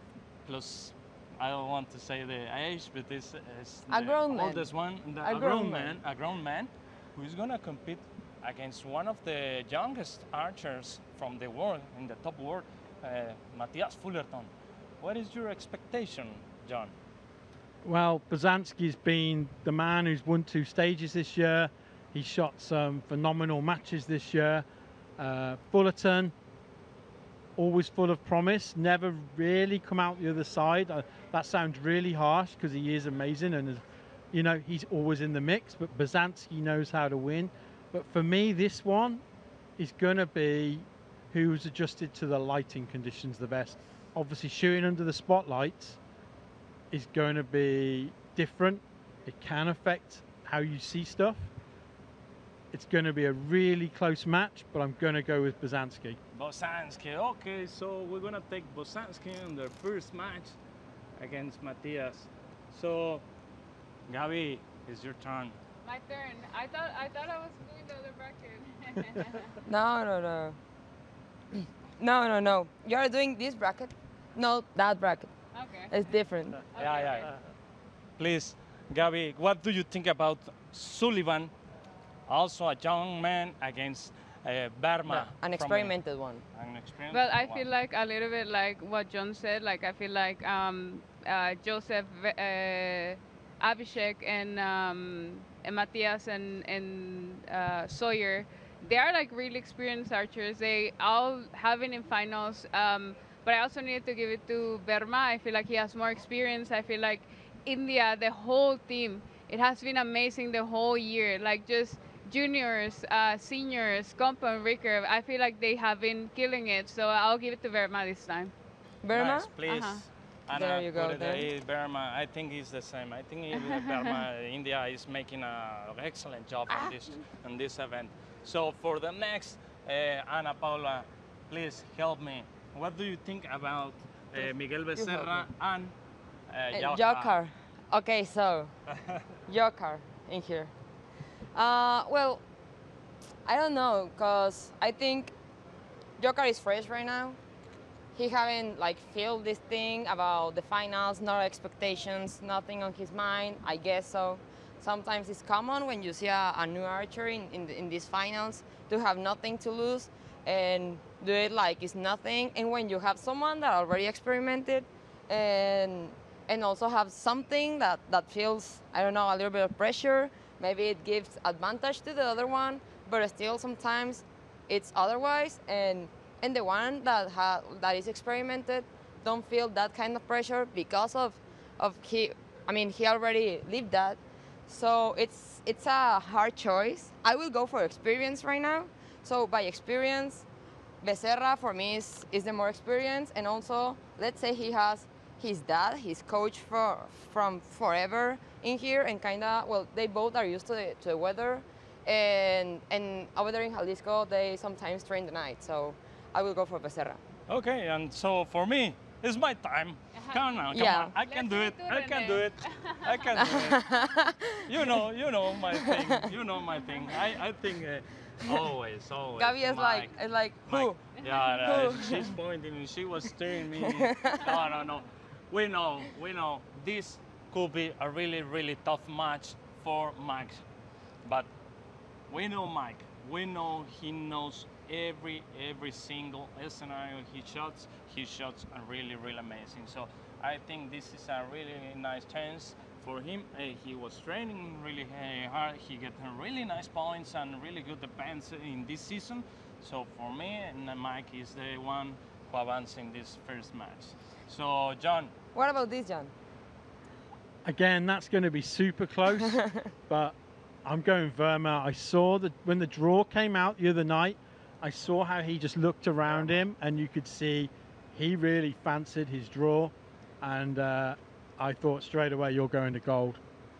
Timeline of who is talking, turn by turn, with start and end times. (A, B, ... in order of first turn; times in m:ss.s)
0:00.4-0:14.5 A
0:03.9-0:04.7 B
0:05.2-0:06.0 B
0:15.0-0:16.9 A
0:17.8-0:24.6 C
0:25.2-0:26.3 C
0:27.6-0:39.2 C
0:39.8-0:46.0 C
0:46.9-0:51.5 C
0:52.7-0:56.2 C
0:56.3-1:00.6 A
1:01.2-1:03.2 A
1:04.1-1:05.6 A
1:05.8-1:09.6 D
1:09.6-1:10.6 B
1:12.0-1:15.3 B
1:15.5-1:15.9 D
1:15.9-1:16.6 B
1:16.7-1:17.3 D
1:16.7-1:17.3 A
1:18.2-1:21.5 A
1:22.3-1:25.9 A
1:25.1-1:26.4 B
1:26.5-1:27.6 A
1:27.1-1:58.5 D
1:59.0-1:59.5 B
1:59.1-2:15.9 A
1:59.6-2:00.0 D
2:00.5-2:01.5 B
2:03.7-2:04.1 D
2:14.9-2:15.4 B
2:16.5-2:17.4 A
2:16.7-2:18.7 B
2:19.5-2:20.7 B
2:21.5-2:22.4 B
2:23.4-2:25.3 B
2:26.2-2:27.4 B
2:28.1-3:10.4 B
3:11.0-3:27.2 B
3:27.5-3:33.8 A
3:30.1-3:30.6 D
3:30.7-3:31.2 B
3:31.2-3:33.4 D
3:33.3-3:35.0 B
3:34.7-3:40.1 A
3:35.7-3:36.2 B
3:39.4-3:41.0 B
3:40.6-3:50.6 A
3:41.6-3:42.3 B
3:43.8-3:44.4 B
3:51.2-3:51.5 A
3:52.3-4:15.3 A
4:15.5-4:16.3 B
4:17.6-4:33.4 C
4:19.5-4:19.8 B